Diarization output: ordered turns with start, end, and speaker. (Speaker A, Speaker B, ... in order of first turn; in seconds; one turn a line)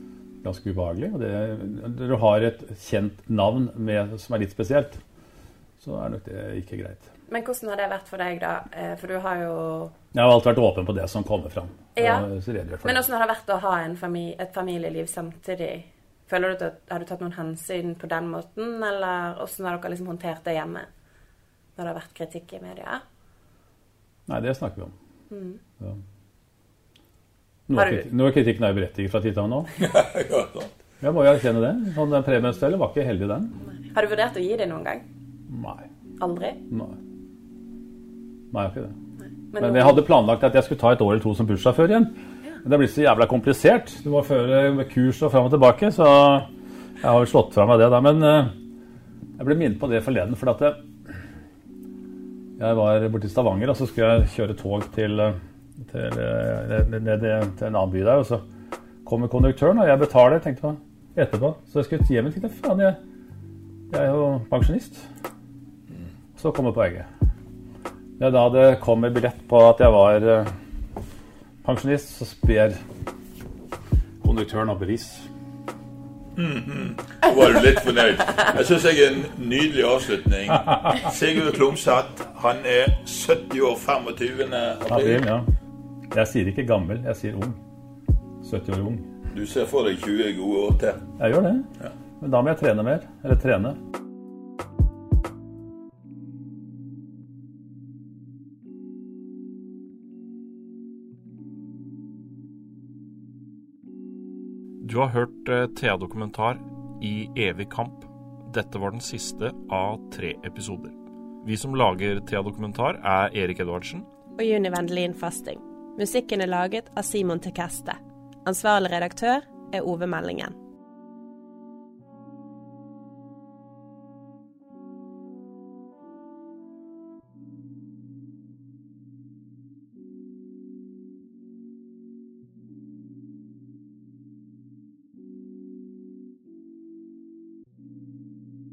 Speaker A: 0.4-5.0
Speaker A: 5.8-7.0
Speaker B: 7.3-9.9
Speaker A: 10.1-13.0
Speaker B: 11.9-12.3
Speaker B: 12.8-20.9
Speaker B: 21.8-23.0
Speaker A: 24.3-24.9
Speaker B: 25.3-25.6
Speaker A: 27.7-29.7
Speaker B: 27.8-28.1
Speaker C: 29.8-30.7
Speaker A: 31.0-33.5
Speaker B: 33.9-35.0
Speaker A: 35.5-35.8
Speaker B: 36.2-36.6
Speaker A: 36.7-37.0
Speaker A: 38.5-38.9
Speaker B: 39.5-40.0
Speaker A: 39.6-42.1
Speaker A: 42.6-46.5
Speaker A: 47.0-48.5
Speaker A: 49.4-51.2
Speaker A: 52.6-58.4
Speaker A: 59.0-63.0
Speaker A: 63.9-65.0
Speaker A: 66.3-67.1
Speaker A: 68.2-70.5
Speaker A: 71.6-72.8
Speaker A: 74.2-75.3
Speaker C: 76.3-85.3
Speaker A: 84.9-85.5
Speaker A: 86.1-87.6
Speaker A: 88.4-89.1
Speaker C: 89.3-91.0
Speaker A: 91.2-91.7
Speaker A: 92.2-93.8
Speaker D: 104.8-114.0
Speaker E: 114.4-120.5